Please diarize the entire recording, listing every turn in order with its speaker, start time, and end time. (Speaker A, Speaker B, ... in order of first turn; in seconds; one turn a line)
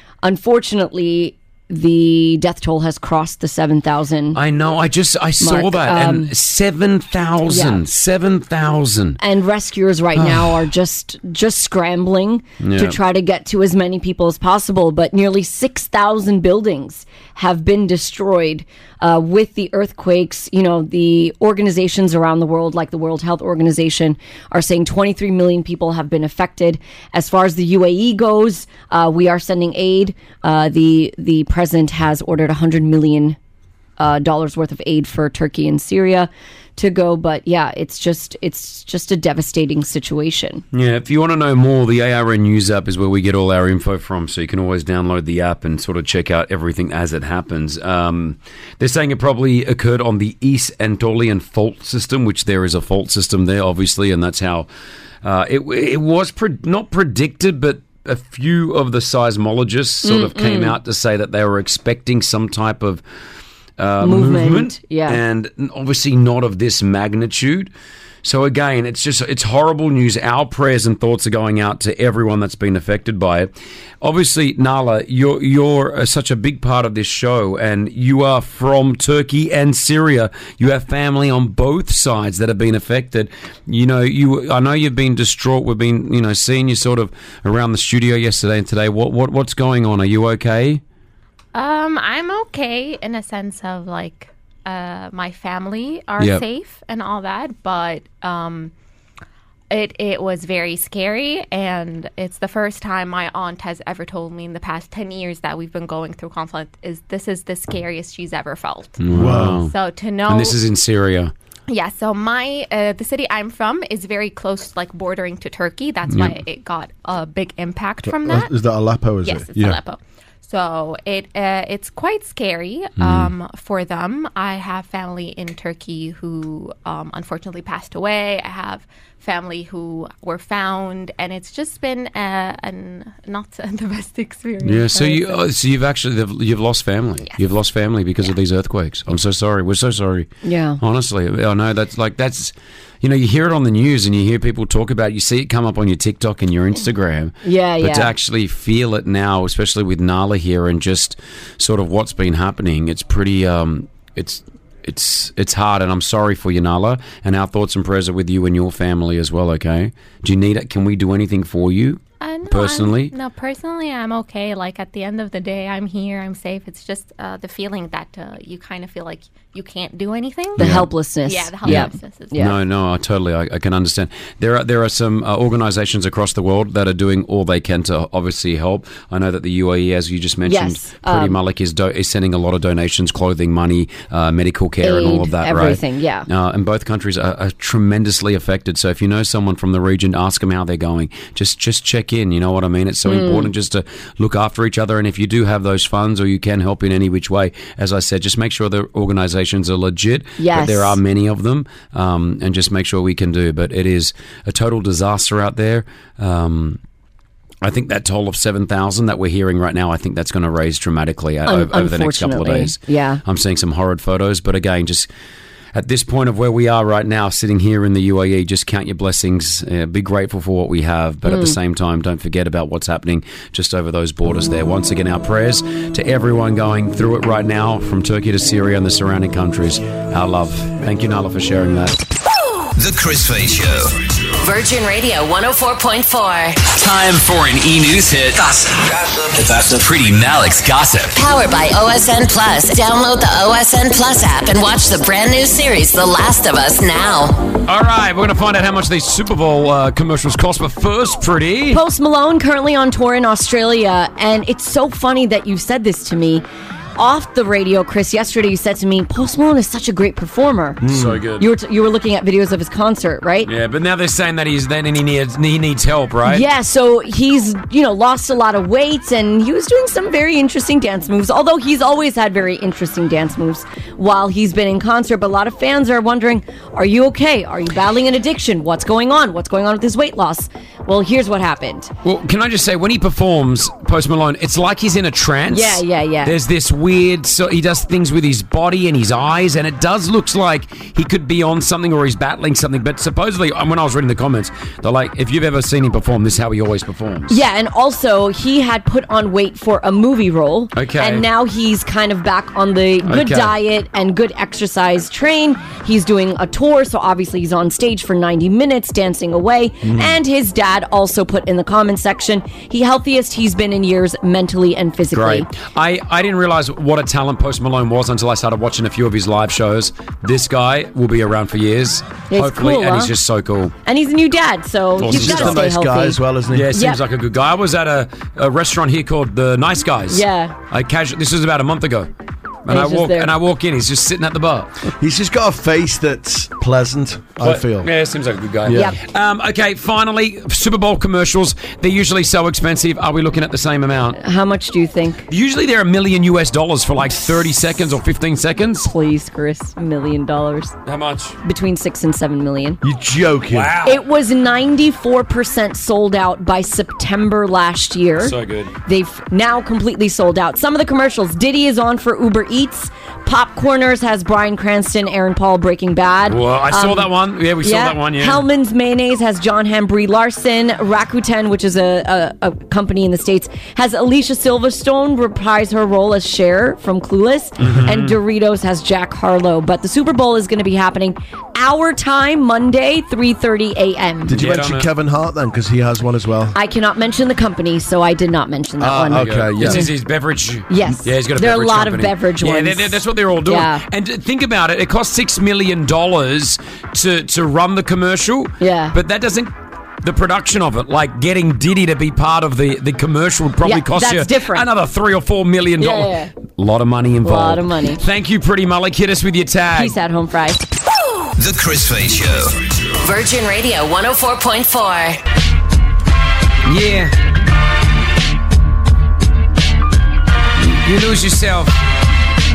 Speaker A: 0.2-4.4
Speaker B: 4.3-9.2
Speaker A: 5.4-6.3
Speaker A: 7.5-7.8
Speaker A: 9.2-33.4
Speaker B: 10.2-10.7
Speaker B: 12.6-13.0
Speaker A: 34.0-40.6
Speaker B: 40.7-54.7
Speaker B: 55.2-63.0
Speaker A: 60.0-60.8
Speaker B: 63.8-67.7
Speaker A: 64.0-65.2
Speaker B: 68.2-90.8
Speaker C: 91.5-98.7
Speaker C: 99.7-110.6
Speaker B: 109.0-109.7
Speaker D: 109.1-109.6
Speaker B: 110.3-111.3
Speaker C: 111.7-118.5
Speaker B: 116.1-116.4
Speaker D: 118.0-119.8
Speaker C: 119.2-135.4
Speaker B: 123.0-123.3
Speaker B: 134.6-163.1
Speaker C: 137.2-137.5
Speaker A: 140.4-140.8
Speaker A: 147.4-148.1
Speaker C: 162.2-170.7
Speaker B: 170.6-170.9
Speaker A: 170.6-172.6
Speaker C: 171.3-172.4
Speaker B: 171.6-206.8
Speaker A: 180.5-181.4
Speaker A: 184.8-186.3
Speaker A: 193.1-193.5
Speaker A: 200.4-201.0
Speaker B: 207.6-215.1
Speaker A: 211.5-213.2
Speaker B: 215.7-232.0
Speaker A: 221.3-221.6
Speaker E: 232.8-234.2
Speaker F: 234.4-236.7
Speaker B: 236.8-238.7
Speaker E: 238.4-239.8
Speaker B: 239.4-241.2
Speaker F: 241.2-247.5
Speaker B: 247.7-251.8
Speaker A: 251.7-256.4
Speaker A: 257.0-260.8
Speaker D: 260.8-261.2
Speaker B: 260.9-261.5
Speaker A: 261.4-263.5
Speaker B: 263.4-266.5
Speaker A: 266.3-281.9
Speaker B: 282.0-297.4
Speaker A: 285.5-286.4
Speaker A: 297.3-315.5
Speaker B: 300.8-301.3
Speaker B: 303.1-303.6
Speaker B: 315.1-323.7
Speaker A: 322.3-323.1
Speaker A: 323.9-326.2
Speaker B: 325.0-325.6
Speaker D: 325.1-326.8
Speaker B: 326.5-332.1
Speaker A: 326.7-327.0
Speaker A: 330.1-330.6
Speaker B: 332.7-334.7
Speaker A: 332.7-333.3
Speaker D: 335.0-337.9
Speaker B: 337.4-344.2
Speaker D: 338.6-338.9
Speaker A: 338.7-339.0
Speaker A: 344.2-345.2
Speaker B: 345.3-348.9
Speaker A: 348.8-350.8
Speaker B: 350.9-351.4
Speaker A: 351.4-352.8
Speaker D: 352.8-353.7
Speaker B: 353.5-354.0
Speaker A: 353.8-358.4
Speaker B: 358.2-358.7
Speaker A: 358.9-384.4
Speaker B: 366.3-368.4
Speaker B: 377.6-378.2
Speaker D: 384.3-386.6
Speaker B: 384.3-384.9
Speaker A: 386.5-389.9
Speaker D: 388.8-389.9
Speaker B: 389.1-399.5
Speaker A: 390.7-393.8
Speaker A: 398.6-398.9
Speaker B: 400.0-410.0
Speaker A: 403.6-404.7
Speaker A: 405.8-406.3
Speaker A: 407.2-408.0
Speaker A: 409.7-410.6
Speaker E: 411.4-412.7
Speaker F: 413.0-415.2
Speaker B: 416.6-417.1
Speaker B: 420.6-421.8